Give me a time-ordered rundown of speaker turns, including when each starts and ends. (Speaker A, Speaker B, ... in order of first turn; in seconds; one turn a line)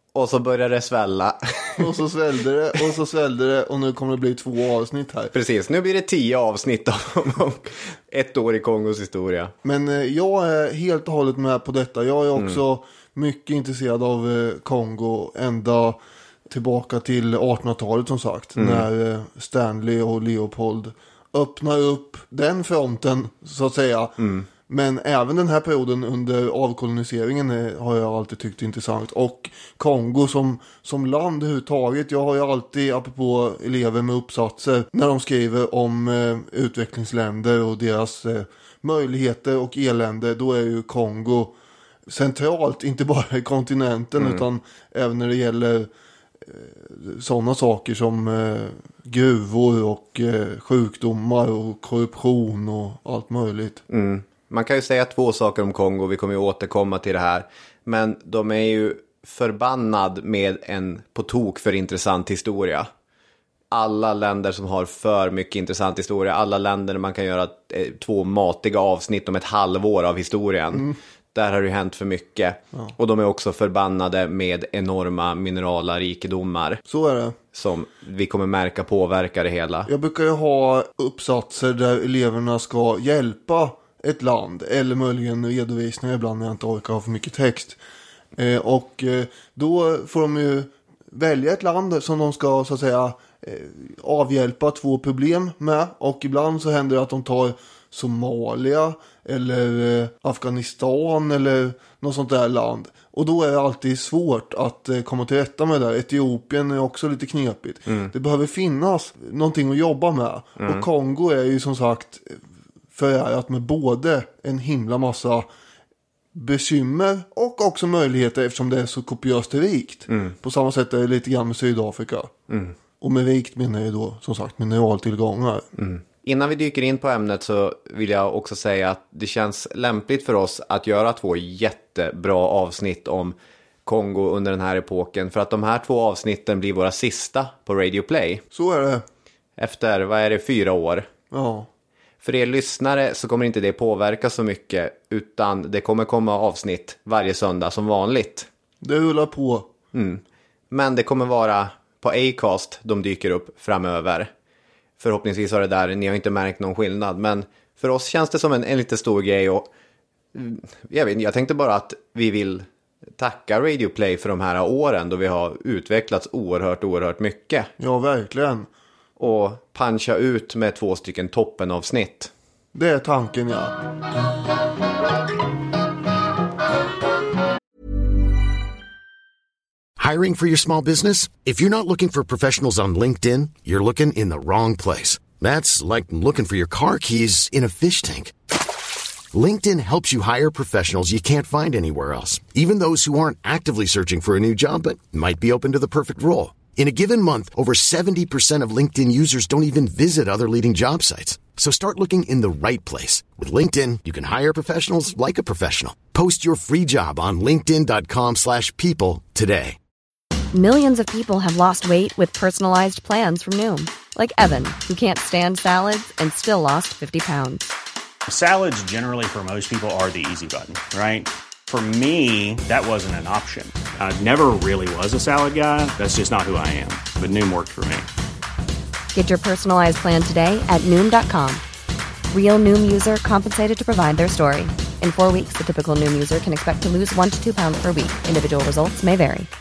Speaker A: 0.1-2.0
Speaker B: 1.8-5.3
Speaker A: 5.3-9.5
Speaker B: 9.6-41.5
Speaker A: 18.6-18.9
Speaker A: 24.2-24.5
Speaker B: 42.1-45.9
Speaker A: 44.2-44.4
Speaker B: 46.4-53.8
Speaker A: 53.9-62.9
Speaker A: 63.7-76.8
Speaker B: 76.9-77.4
Speaker A: 77.5-79.9
Speaker B: 79.9-87.8
Speaker B: 88.4-112.4
Speaker A: 107.9-108.1
Speaker A: 110.6-110.9
Speaker B: 112.9-115.5
Speaker B: 116.3-122.3
Speaker A: 120.1-120.3
Speaker A: 122.5-122.8
Speaker B: 123.0-125.7
Speaker A: 125.8-133.3
Speaker A: 133.9-138.4
Speaker B: 138.5-139.0
Speaker A: 139.6-141.1
Speaker B: 141.3-141.7
Speaker A: 142.2-148.5
Speaker B: 148.8-149.7
Speaker A: 149.9-154.3
Speaker A: 155.0-159.7
Speaker A: 160.3-162.7
Speaker A: 163.2-167.7
Speaker B: 167.8-168.7
Speaker A: 169.2-172.3
Speaker B: 172.7-173.8
Speaker C: 180.0-188.3
Speaker C: 189.3-209.8
Speaker D: 210.5-217.7
Speaker E: 218.3-228.1
Speaker D: 229.1-231.6
Speaker D: 232.3-239.5